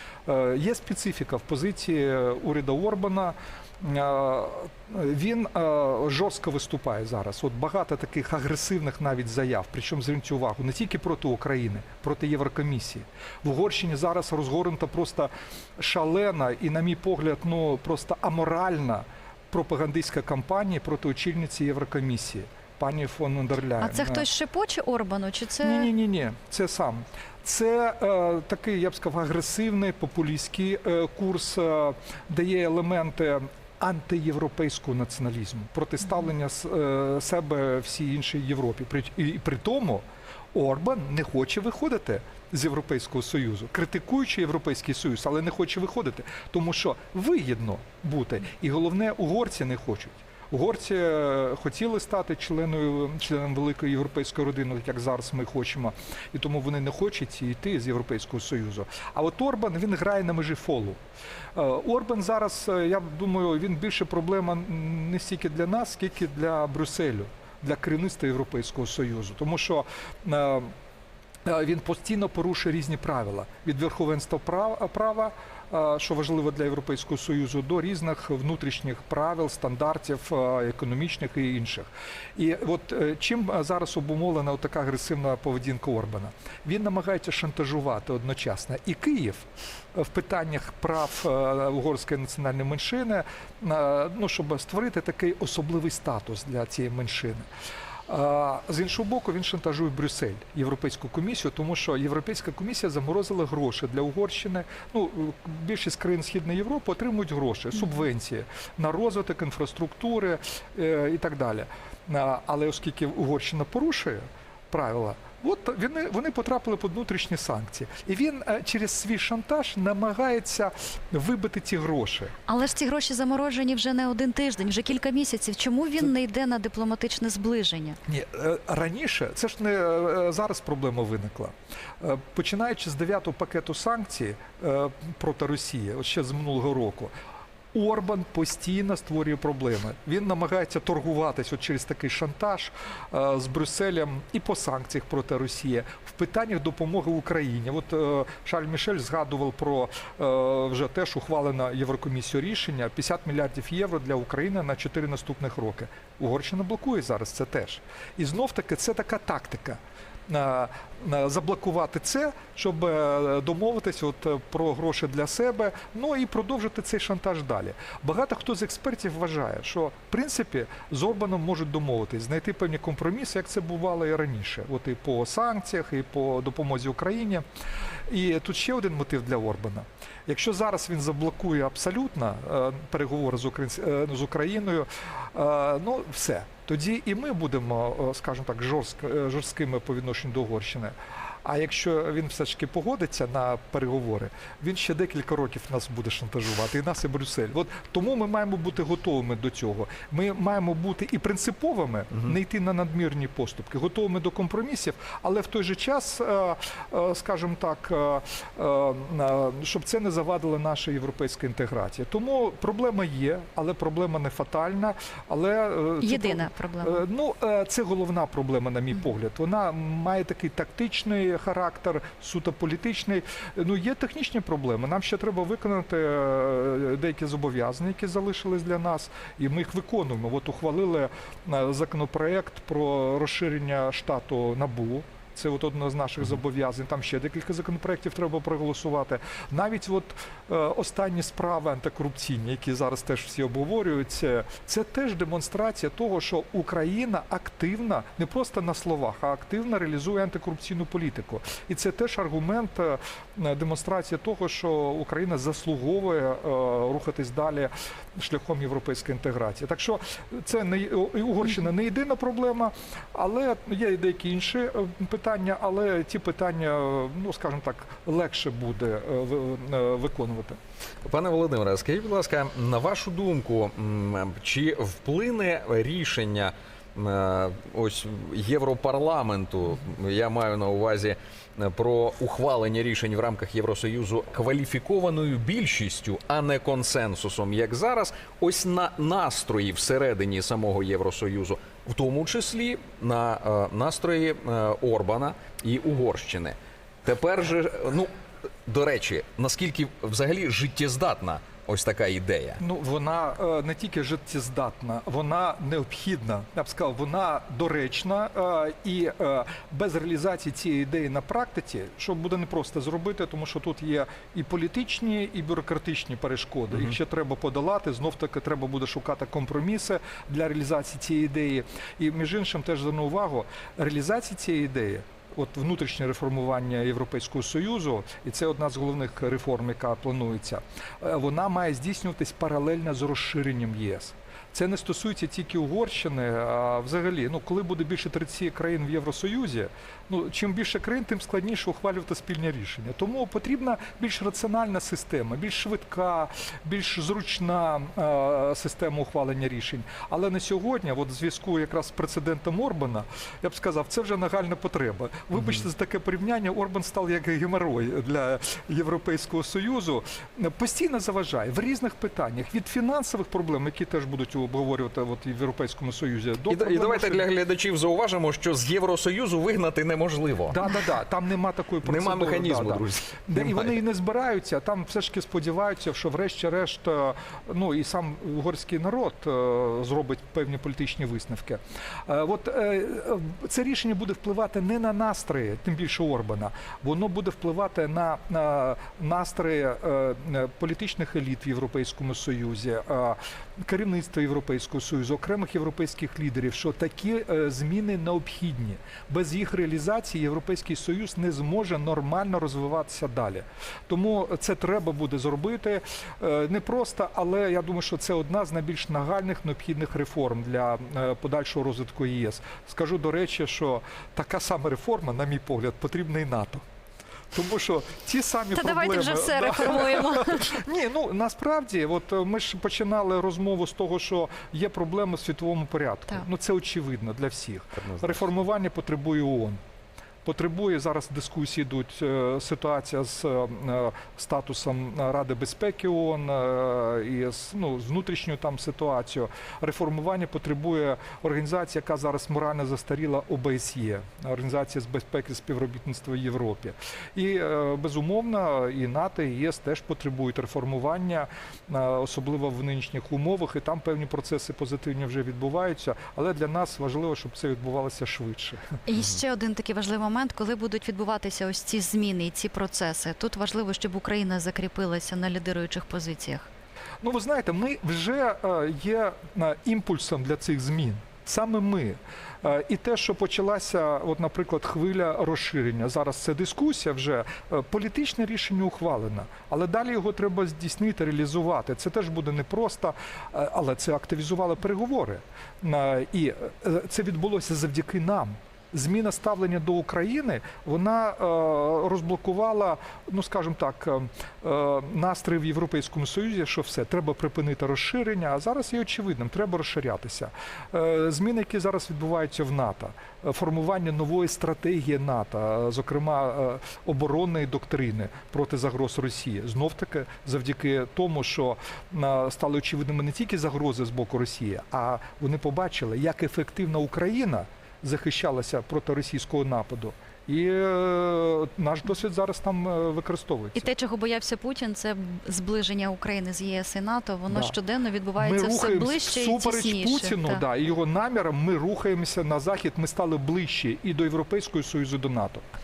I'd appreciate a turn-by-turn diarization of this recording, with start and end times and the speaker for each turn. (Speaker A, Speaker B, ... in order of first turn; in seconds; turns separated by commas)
Speaker A: 0.2-24.3, Speaker B: 23.8-25.9, Speaker A: 25.6-61.0, Speaker A: 61.5-70.7, Speaker A: 71.4-97.5, Speaker A: 98.1-122.3, Speaker B: 122.5-128.0, Speaker A: 128.1-137.1, Speaker A: 137.7-177.4, Speaker A: 178.1-270.6, Speaker B: 216.0-217.0, Speaker C: 271.0-298.1, Speaker C: 298.6-302.6, Speaker A: 302.6-367.3, Speaker C: 366.5-370.6, Speaker A: 370.5-416.6, Speaker C: 371.8-373.7, Speaker A: 417.3-429.6, Speaker B: 418.5-420.5, Speaker C: 427.7-428.2, Speaker A: 430.2-458.8, Speaker B: 458.9-466.5, Speaker A: 467.0-523.7, Speaker B: 523.5-530.4, Speaker A: 527.3-527.5, Speaker A: 528.2-535.4